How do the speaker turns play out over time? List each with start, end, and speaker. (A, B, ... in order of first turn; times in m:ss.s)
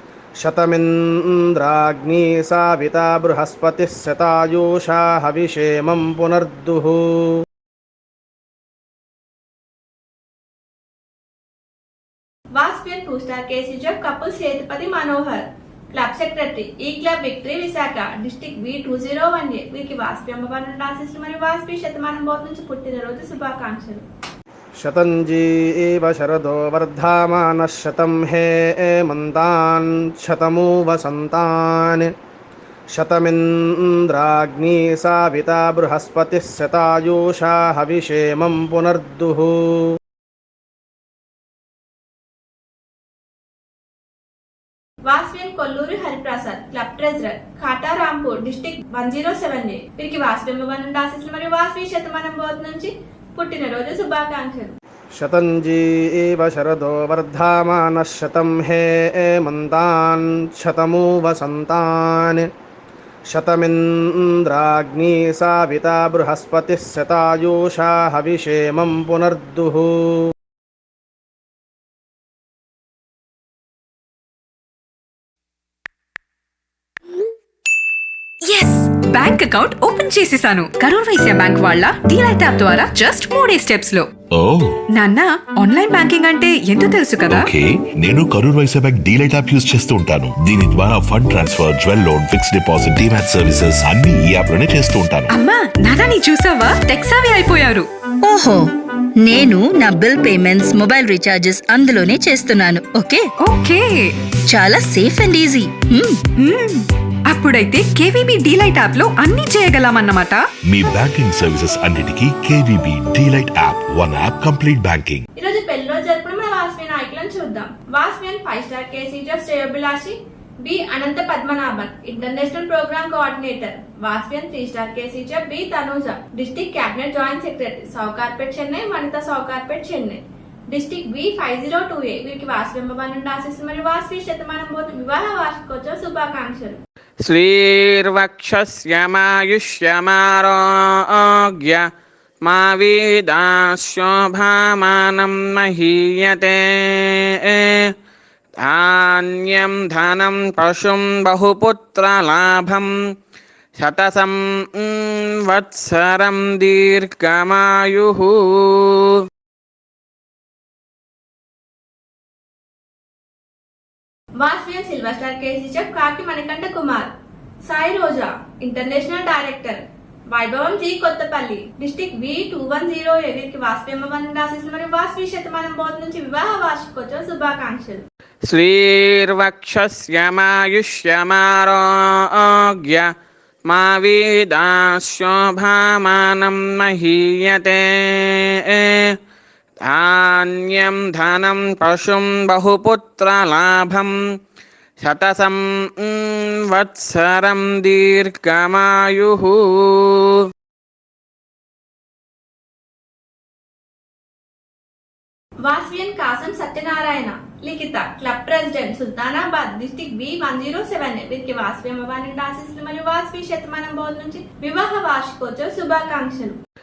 0:00.4-0:07.3 A
0:12.5-0:24.0 B
0:24.8-0:32.1 A
0:32.9-0:39.8 A
0:45.0-0:54.7 B
0:55.1-1:02.4 A
1:03.3-1:10.2 A
1:18.5-1:24.0 C
1:24.3-1:24.8 D
1:24.9-1:27.4 C
1:27.2-1:35.3 D
1:35.4-1:37.8 C
1:38.2-1:43.3 E
1:43.5-1:43.8 C
1:44.5-1:46.2 E
1:46.4-1:46.8 C
1:47.3-1:50.3 C
1:50.7-1:55.2 D
1:55.4-2:16.8 B
2:17.2-2:21.8 F
2:22.4-2:27.9 F
2:28.6-2:32.9 F
2:33.8-2:39.2 F
2:44.4-2:47.1 B
2:47.6-2:49.8 B
2:50.3-2:58.0 B
2:58.5-3:03.1 F
3:03.7-3:09.2 F
3:09.9-3:14.1 F
3:15.0-3:20.4 F
3:25.6-3:36.6 B